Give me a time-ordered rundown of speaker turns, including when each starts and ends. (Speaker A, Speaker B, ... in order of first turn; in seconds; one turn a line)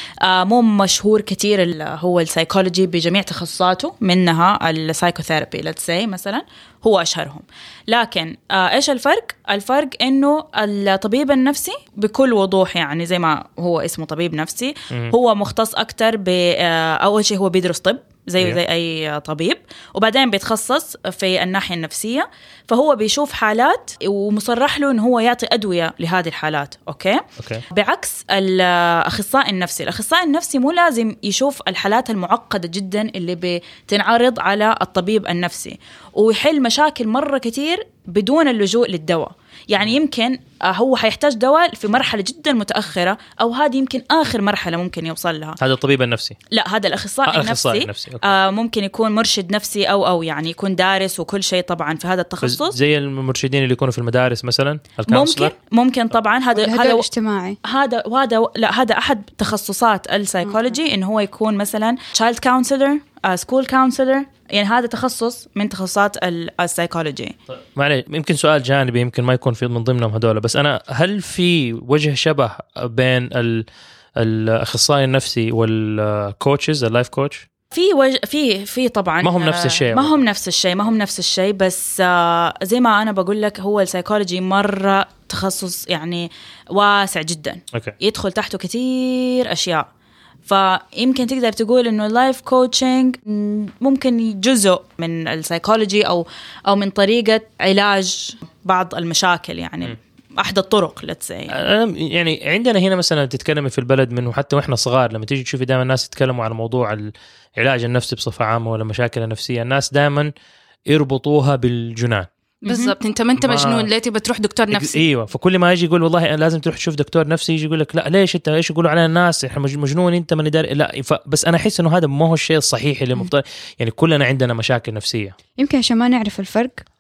Speaker A: 0.2-45.6
Speaker B: 27.4-27.6
Speaker B: 45.6-46.4
Speaker A: 46.5-52.8
Speaker B: 47.3-48.3
Speaker B: 52.4-55.5
Speaker A: 55.1-57.0
Speaker C: 56.5-57.6
Speaker A: 57.6-67.3
Speaker C: 60.4-60.8
Speaker B: 67.5-73.7
Speaker B: 74.2-77.4
Speaker A: 77.7-89.9
Speaker B: 79.2-80.2
Speaker A: 90.5-101.5
Speaker B: 101.5-110.3
Speaker B: 110.9-112.3
Speaker A: 112.6-112.9
Speaker D: 112.6-115.0
Speaker B: 113.4-113.9
Speaker B: 114.7-125.3
Speaker C: 125.6-126.8